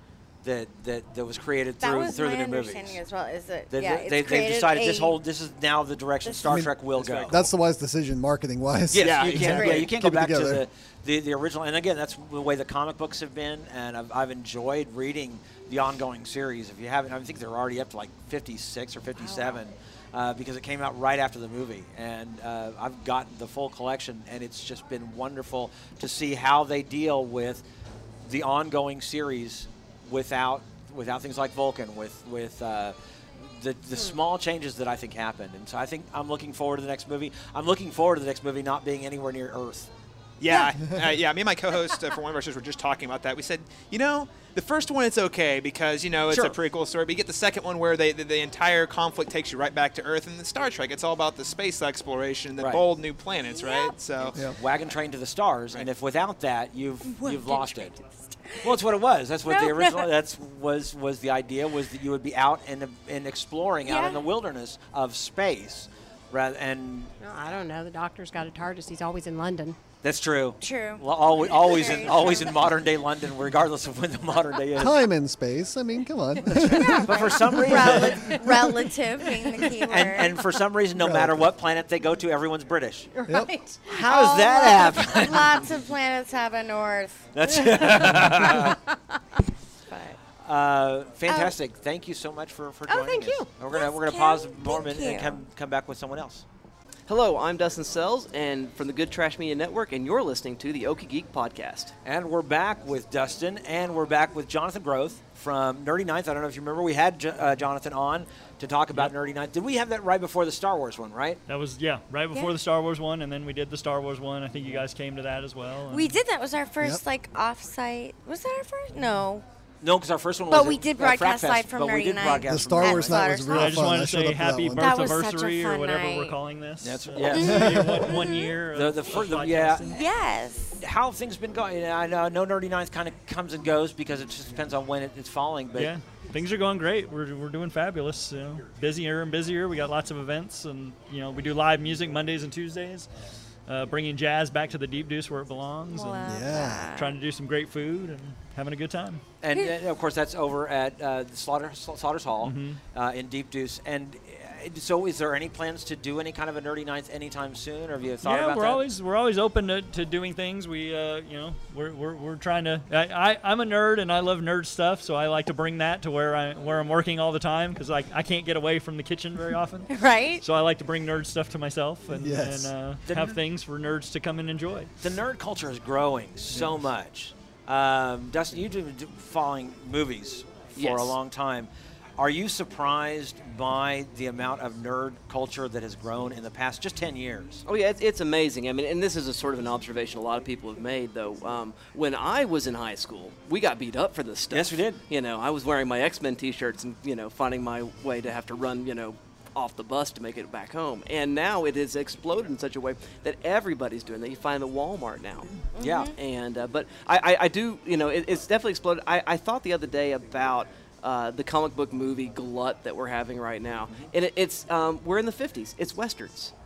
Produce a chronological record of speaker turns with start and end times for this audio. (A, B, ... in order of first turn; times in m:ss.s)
0:00.4-0:03.0 A
0:01.8-0:05.2 B
0:03.7-0:07.5 A
0:06.2-0:06.5 B
0:06.4-0:06.7 C
0:07.3-0:10.7 C
0:08.9-0:27.6 A
0:08.9-0:10.0 D
0:09.4-0:09.9 B
0:19.2-0:19.6 B
0:28.2-0:39.9 A
0:40.4-0:54.5 D
0:46.3-0:46.6 A
0:53.5-0:53.9 B
0:54.5-0:57.9 A
0:57.1-0:58.8 B
0:58.6-1:07.1 A
0:59.5-1:00.1 B
1:03.8-1:04.2 B
1:07.2-1:09.8 E
1:10.0-1:15.0 A
1:10.6-1:12.7 B
1:14.8-1:18.6 C
1:16.7-1:17.3 E
1:16.9-1:20.3 B
1:17.1-1:18.4 A
1:19.8-1:23.1 A
1:21.0-1:21.4 C
1:23.1-1:23.9 E
1:23.9-1:25.7 A
1:23.9-1:28.1 B
1:27.4-1:28.8 A
1:27.8-1:28.7 E
1:29.9-1:30.2 B
1:30.4-1:36.4 A
1:31.3-1:31.6 B
1:32.9-1:33.5 E
1:33.7-1:35.4 B
1:37.1-1:41.9 F
1:42.0-1:51.4 A
1:51.5-1:56.2 G
1:55.9-1:59.4 B
1:59.8-2:03.3 A
2:00.5-2:03.9 B
2:02.5-2:05.1 C
2:03.5-2:10.0 G
2:04.8-2:06.4 B
2:06.8-2:10.0 A
2:07.2-2:08.6 B
2:07.4-2:08.0 C
2:09.9-2:10.8 B
2:10.8-2:15.9 A
2:15.8-2:23.1 G
2:23.7-2:26.3 G
2:25.9-2:27.2 B
2:26.2-2:26.9 C
2:27.0-2:29.2 G
2:29.4-2:38.8 A
2:32.4-2:32.8 G
2:38.2-2:49.9 G
2:49.9-2:50.4 B
2:50.4-2:54.9 G
2:52.1-2:52.7 C
2:53.1-2:53.4 A
2:55.0-3:07.6 A
3:00.8-3:01.2 F
3:07.7-3:36.5 F
3:14.5-3:15.0 A
3:25.8-3:26.1 B